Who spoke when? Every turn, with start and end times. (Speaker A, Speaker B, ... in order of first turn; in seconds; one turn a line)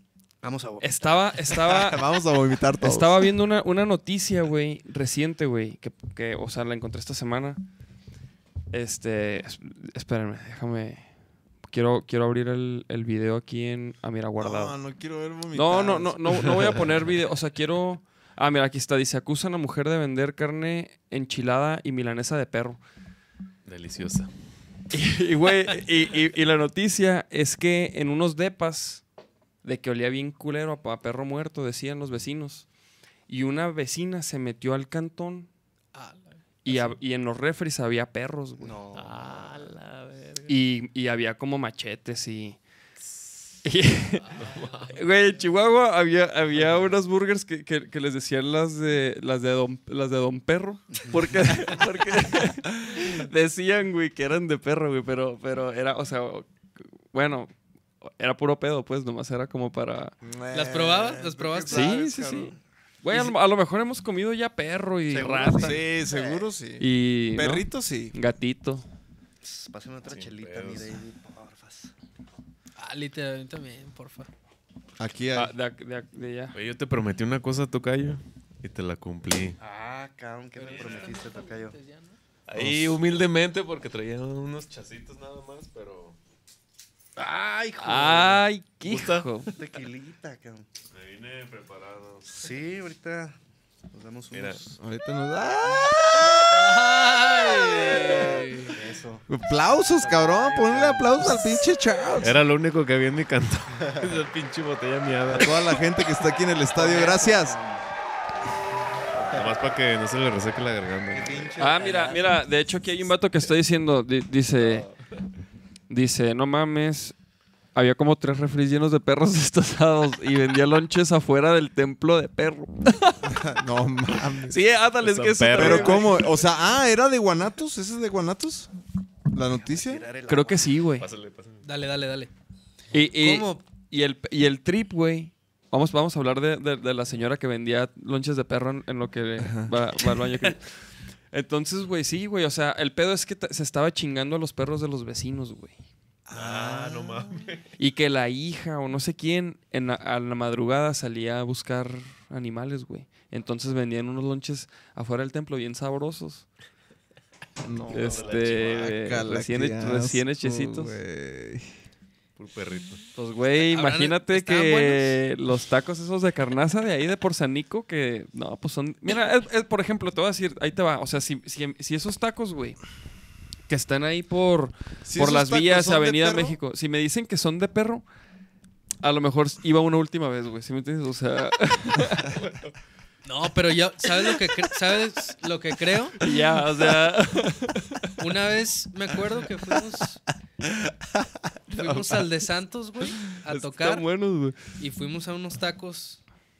Speaker A: 0.4-1.3
Speaker B: 0.8-2.0
Speaker C: 1.6-3.3
Speaker B: 2.8-7.6
Speaker B: 8.7-11.1
Speaker B: 11.7-14.8
Speaker C: 14.4-16.9
Speaker B: 15.5-22.8
Speaker D: 23.6-24.3
Speaker B: 24.9-29.0
Speaker B: 29.6-32.7
Speaker B: 33.3-35.5
Speaker E: 35.9-36.8
Speaker B: 36.6-38.8
Speaker A: 38.6-39.8
Speaker D: 38.9-40.6
Speaker B: 40.5-42.6
Speaker B: 43.6-44.3
Speaker D: 44.4-45.0
Speaker B: 44.9-56.5
Speaker B: 57.1-57.5
Speaker B: 58.0-60.1
Speaker C: 60.2-62.5
Speaker E: 60.5-62.0
Speaker B: 61.7-65.8
Speaker A: 65.1-66.1
Speaker C: 65.6-68.2
Speaker E: 66.1-66.4
Speaker B: 66.8-68.8
Speaker A: 69.4-71.9
Speaker D: 70.1-71.0
Speaker E: 72.8-74.3
Speaker C: 75.0-75.5
Speaker B: 75.3-76.5
Speaker D: 76.5-79.6
Speaker A: 79.6-81.8
Speaker E: 80.6-82.2
Speaker D: 80.7-81.1
Speaker D: 82.5-86.2
Speaker A: 87.2-88.5
Speaker B: 87.8-89.5
Speaker D: 88.8-89.3
Speaker A: 89.4-90.7
Speaker D: 90.9-92.3
Speaker A: 92.3-93.4
Speaker A: 93.9-94.8
Speaker D: 94.3-94.6
Speaker C: 94.8-96.6
Speaker A: 95.7-95.9
Speaker E: 96.5-98.8
Speaker A: 97.2-99.2
Speaker C: 99.3-102.4
Speaker A: 100.0-101.4
Speaker D: 102.2-105.8
Speaker C: 105.3-107.6
Speaker A: 106.8-107.8
Speaker A: 109.2-109.5
Speaker D: 109.2-111.6
Speaker A: 111.1-112.4
Speaker B: 111.6-114.9
Speaker B: 115.9-117.2
Speaker B: 117.8-123.2
Speaker C: 123.2-124.6
Speaker B: 124.5-126.3
Speaker D: 125.0-126.2
Speaker C: 125.6-128.7
Speaker C: 129.3-130.1
Speaker A: 129.5-130.7
Speaker B: 130.3-131.1
Speaker D: 130.9-131.7
Speaker E: 131.6-132.3
Speaker B: 132.9-140.6
Speaker E: 133.2-133.6
Speaker C: 139.4-139.7
Speaker B: 141.3-145.8
Speaker C: 146.3-147.4
Speaker D: 146.3-147.7
Speaker B: 147.8-156.5
Speaker C: 157.6-161.8
Speaker D: 157.8-159.1
Speaker B: 157.9-161.0
Speaker D: 162.4-163.1
Speaker B: 163.2-172.8
Speaker E: 163.6-165.2
Speaker B: 173.7-178.1
Speaker C: 175.1-176.6
Speaker B: 179.0-182.3
Speaker D: 182.3-182.7
Speaker E: 183.2-186.2
Speaker B: 186.2-188.0
Speaker E: 188.2-190.2
Speaker E: 191.7-194.1
Speaker B: 193.5-194.6
Speaker E: 194.8-196.2